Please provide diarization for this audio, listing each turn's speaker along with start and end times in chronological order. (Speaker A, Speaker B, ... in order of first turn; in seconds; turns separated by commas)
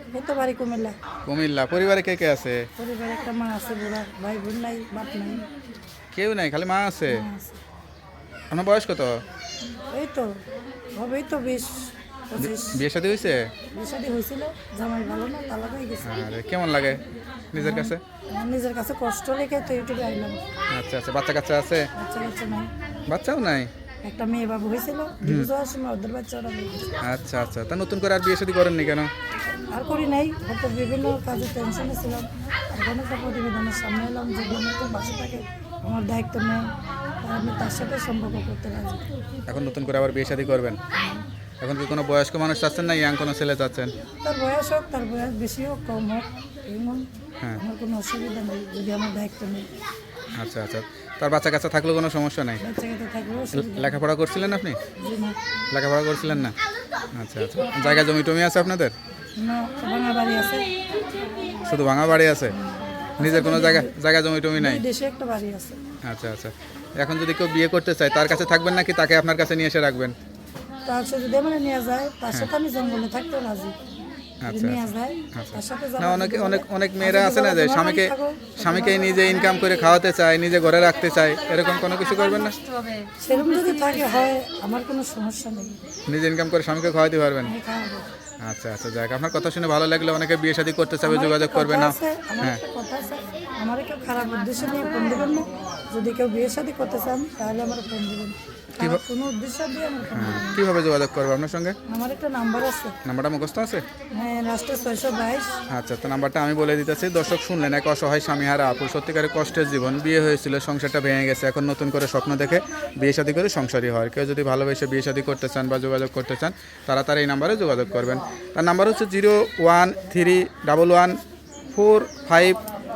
Speaker A: 0.1-0.9, Speaker B: 1.3-2.7, Speaker A: 2.8-5.5, Speaker B: 6.1-7.2, Speaker A: 7.1-7.6, Speaker B: 8.5-9.2, Speaker A: 9.9-10.4, Speaker A: 10.9-12.8, Speaker B: 12.4-13.5, Speaker A: 13.7-16.1, Speaker B: 16.0-17.0, Speaker B: 17.5-18.0, Speaker A: 17.6-20.4, Speaker B: 20.7-21.9, Speaker A: 21.9-22.7, Speaker B: 23.1-23.7, Speaker A: 24.0-27.0, Speaker B: 25.2-25.5, Speaker B: 27.0-29.1, Speaker A: 29.7-36.6, Speaker A: 37.2-39.1, Speaker B: 39.5-40.8, Speaker A: 41.0-41.2, Speaker B: 41.6-43.9, Speaker A: 44.2-47.0, Speaker A: 47.6-49.7, Speaker B: 50.4-52.6, Speaker A: 52.6-54.0, Speaker B: 53.5-54.8, Speaker A: 55.0-55.4, Speaker B: 55.7-56.6, Speaker B: 57.1-58.9, Speaker A: 59.4-60.7, Speaker B: 61.7-62.6, Speaker A: 62.5-64.0, Speaker B: 63.2-64.8, Speaker A: 64.6-65.8, Speaker B: 66.0-70.2, Speaker A: 70.9-73.8, Speaker B: 74.4-82.6, Speaker A: 74.5-79.6, Speaker A: 83.2-85.8, Speaker B: 86.1-87.5, Speaker A: 87.5-88.1, Speaker B: 88.4-92.6, Speaker A: 91.0-100.6, Speaker B: 100.1-101.8, Speaker A: 101.9-103.0, Speaker B: 103.0-103.8, Speaker A: 104.1-105.6, Speaker B: 105.7-121.2, Speaker B: 121.7-122.6